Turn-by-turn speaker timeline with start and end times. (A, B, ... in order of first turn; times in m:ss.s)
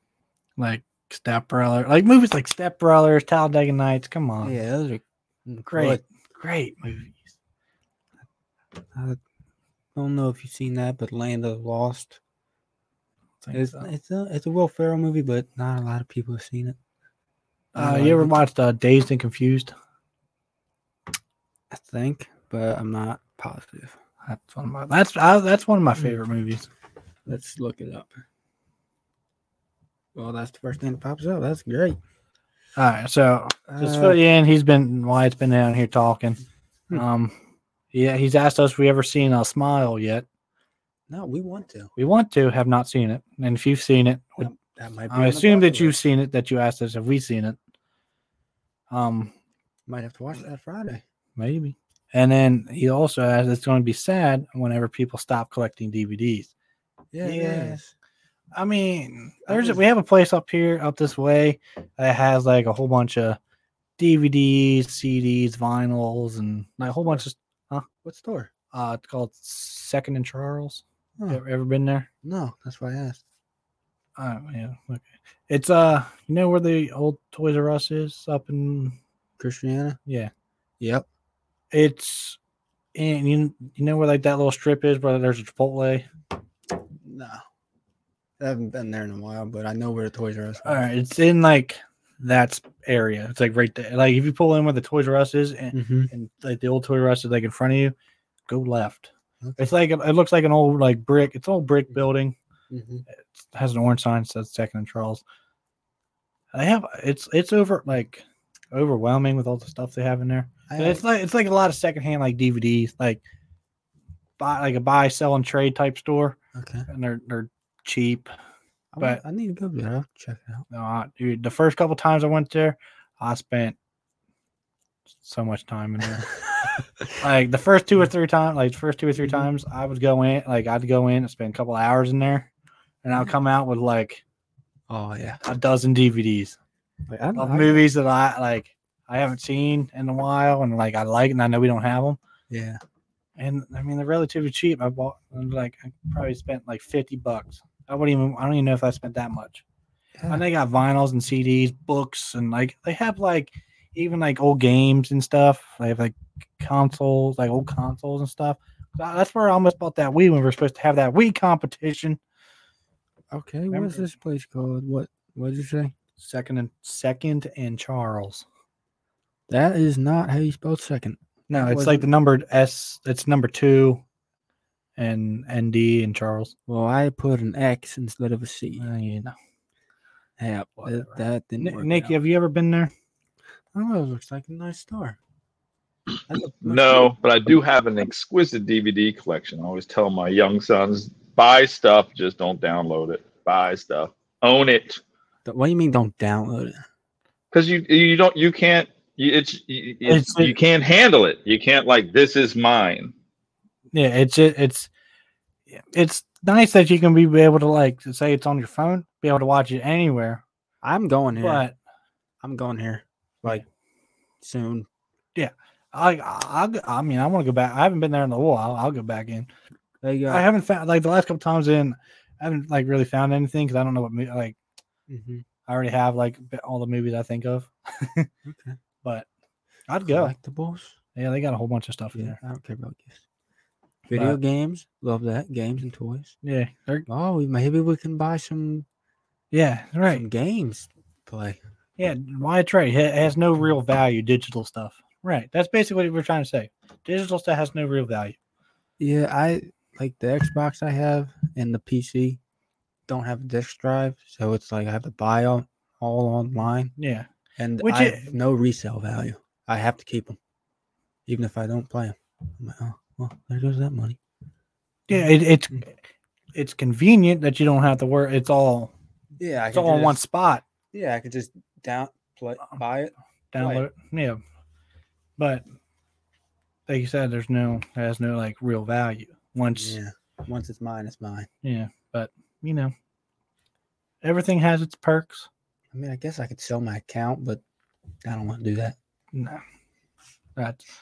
0:00.6-0:04.6 A
0:04.4-0:06.0 B
0:05.7-0:07.3 A
0:08.9-0:09.2 B
0:09.9-0:12.2 B
0:13.4-0:13.9 A
0:13.5-0:16.8 B
0:17.7-0:19.7 A
0:17.8-0:18.4 B
0:21.7-0:24.0 B
0:24.2-0:26.7 A
0:27.3-0:28.1 B
0:30.1-0:32.0 B
0:32.8-0:37.3 A
0:33.7-0:34.2 B
0:37.9-0:40.2 A
0:41.1-0:41.9 B
0:42.0-0:44.5 A
0:44.4-0:46.0 B
0:45.1-0:47.6 A
0:48.9-0:49.3 A
0:49.9-0:51.0 B
0:51.4-0:56.5 A
0:57.1-0:57.9 B
0:57.2-0:57.8 A
0:58.5-1:03.4 A
0:59.4-0:59.8 B
1:04.0-1:07.8 A
1:08.0-1:08.5 B
1:08.7-1:12.1 A
1:12.2-1:13.2 B
1:14.2-1:19.0 A
1:19.4-1:20.0 B
1:20.0-1:20.3 A
1:20.8-1:21.0 B
1:21.7-1:22.4 A
1:22.9-1:26.1 A
1:27.0-1:27.4 B
1:28.4-1:30.8 B
1:30.6-1:37.9 A
1:35.7-1:36.1 B
1:38.5-1:42.4 A
1:39.4-1:39.7 B
1:42.7-1:43.0 B
1:43.3-1:45.2 A
1:46.5-1:53.2 A
1:50.7-1:51.0 B
1:54.4-1:56.4 A
1:56.5-1:56.9 B
1:56.9-1:58.3 A
1:58.9-2:00.6 B
2:00.7-2:03.8 A
2:05.2-2:06.3 A
2:07.2-2:12.5 A
2:09.2-2:09.5 B
2:13.0-2:14.2 A
2:14.9-2:15.4 B
2:15.4-2:16.6 A
2:17.1-2:17.8 B
2:17.4-2:22.2 A
2:22.5-2:22.8 B
2:23.4-2:29.6 A
2:30.2-2:30.4 B
2:30.3-2:42.2 A
2:43.3-2:45.9 B
2:43.7-2:44.1 A
2:46.2-2:48.4 A
2:49.5-2:52.0 B
2:51.5-2:54.0 A
2:55.0-2:56.5 A
2:56.7-2:58.9 B
2:58.8-2:59.3 A
3:00.4-3:02.1 B
3:00.8-3:02.9 A
3:03.7-3:05.2 B
3:06.3-3:07.1 B
3:06.6-3:15.0 C
3:15.4-3:16.8 B
3:17.5-3:23.1 C
3:20.0-3:20.6 A
3:23.9-3:24.9 A
3:25.7-3:30.4 A
3:30.8-3:31.6 B
3:31.4-3:31.7 A
3:32.4-3:33.6 B
3:34.4-3:34.9 B
3:35.3-3:39.5 A
3:40.0-3:40.4 B
3:40.3-3:44.6 A
3:45.1-3:45.4 B
3:45.7-3:48.3 A
3:48.4-3:48.8 B
3:49.9-3:50.3 A
3:50.0-3:51.0 B
3:51.1-3:52.4 A
3:52.1-3:53.2 B
3:54.1-3:56.3 B
3:54.1-3:54.4 A
3:56.4-3:57.0 A
3:57.1-3:58.8 B
3:59.5-4:00.2 A
4:00.1-4:01.6 B
4:02.0-4:08.4 A
4:09.0-4:12.4 B
4:13.1-4:16.9 B
4:17.0-4:17.3 A
4:17.6-4:20.4 B
4:17.8-4:18.3 A
4:21.3-4:24.2 B
4:25.1-4:25.8 A
4:26.5-4:28.9 A
4:29.4-4:30.2 B
4:29.7-4:30.6 A
4:30.9-4:33.8 B
4:33.5-4:34.4 A
4:35.4-4:35.6 A
4:36.9-4:40.0 A
4:39.8-4:41.5 B
4:41.6-4:42.9 A
4:44.2-4:45.5 A
4:45.9-4:47.6 B
4:48.2-4:49.0 B
4:49.3-4:49.6 A
4:50.6-4:50.8 A